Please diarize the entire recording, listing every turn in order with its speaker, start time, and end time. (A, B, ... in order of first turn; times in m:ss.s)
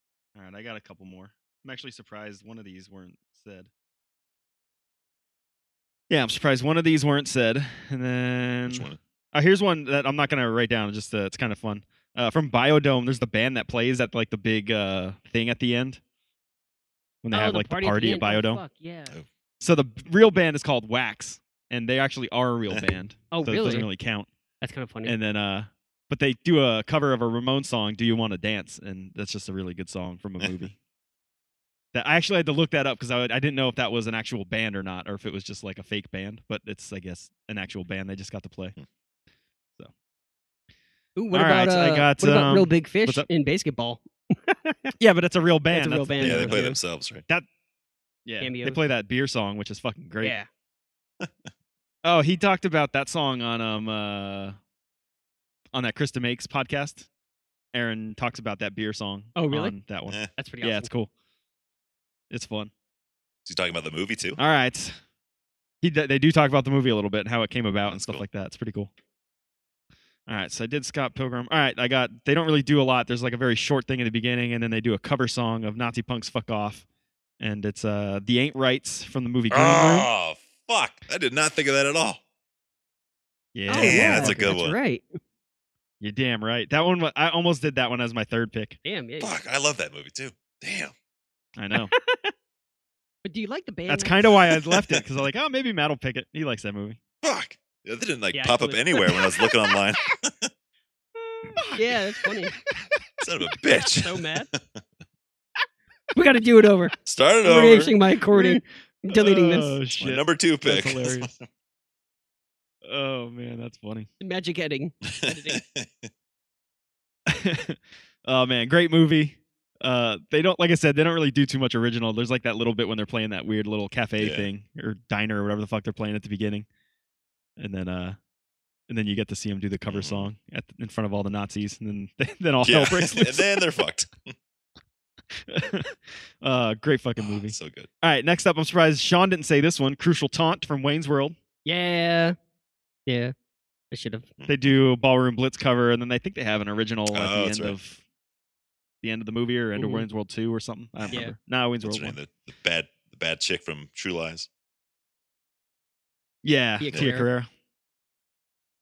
0:00.3-0:03.7 A
0:06.1-0:16.0 A
0:08.7-0:09.0 B
0:17.2-0:18.6 A
0:17.3-0:19.2 C
0:19.6-0:24.3 A
0:23.3-0:23.9 C
0:24.6-0:25.2 C
0:25.0-0:30.7 A
0:31.9-0:38.7 A
0:41.2-0:44.9 C
0:41.3-0:43.2 A
0:45.0-0:46.6 A
0:45.7-0:46.8 C
0:46.2-0:47.2 B
0:48.2-0:50.3 A
0:48.4-0:48.8 C
0:50.2-0:50.5 C
0:52.0-0:54.6 A
0:55.7-0:57.1 A
0:57.7-1:01.1 A
0:59.3-0:59.8 C
1:00.4-1:00.9 C
1:02.3-1:02.7 A
1:03.4-1:04.4 B
1:04.4-1:05.0 A
1:05.8-1:08.9 A
1:07.9-1:08.2 B
1:10.3-1:16.8 A
1:17.4-1:20.1 A
1:19.5-1:22.2 B
1:23.5-1:24.4 A
1:23.7-1:25.2 C
1:23.7-1:24.8 B
1:26.0-1:28.8 A
1:28.8-1:29.3 C
1:29.2-1:30.9 B
1:31.6-1:31.9 A
1:31.8-1:32.3 C
1:33.2-1:34.3 C
1:33.9-1:37.0 A
1:34.6-1:35.0 B
1:37.2-1:40.5 B
1:38.3-1:39.7 C
1:41.2-1:42.5 C
1:41.6-1:42.0 A
1:43.2-1:44.6 B
1:43.7-1:44.5 C
1:46.1-1:49.8 C
1:47.0-1:48.0 B
1:48.3-1:51.3 A
1:50.0-1:51.4 B
1:52.8-1:54.1 A
1:54.2-1:55.6 C
1:55.0-1:56.1 B
1:57.3-2:06.7 A
2:04.2-2:04.5 B
2:07.6-2:08.2 A
2:08.9-2:13.5 A
2:09.9-2:10.3 B
2:12.6-2:14.3 B
2:15.4-2:21.4 A
2:17.2-2:17.9 B
2:21.6-2:22.4 C
2:23.1-2:23.3 C
2:23.9-2:24.3 C
2:24.4-2:24.7 B
2:24.5-2:28.0 A
2:27.1-2:27.8 B
2:29.0-2:32.2 A
2:29.8-2:30.0 C
2:31.0-2:31.2 B
2:31.8-2:34.5 B
2:36.4-2:37.5 A
2:36.8-2:37.3 C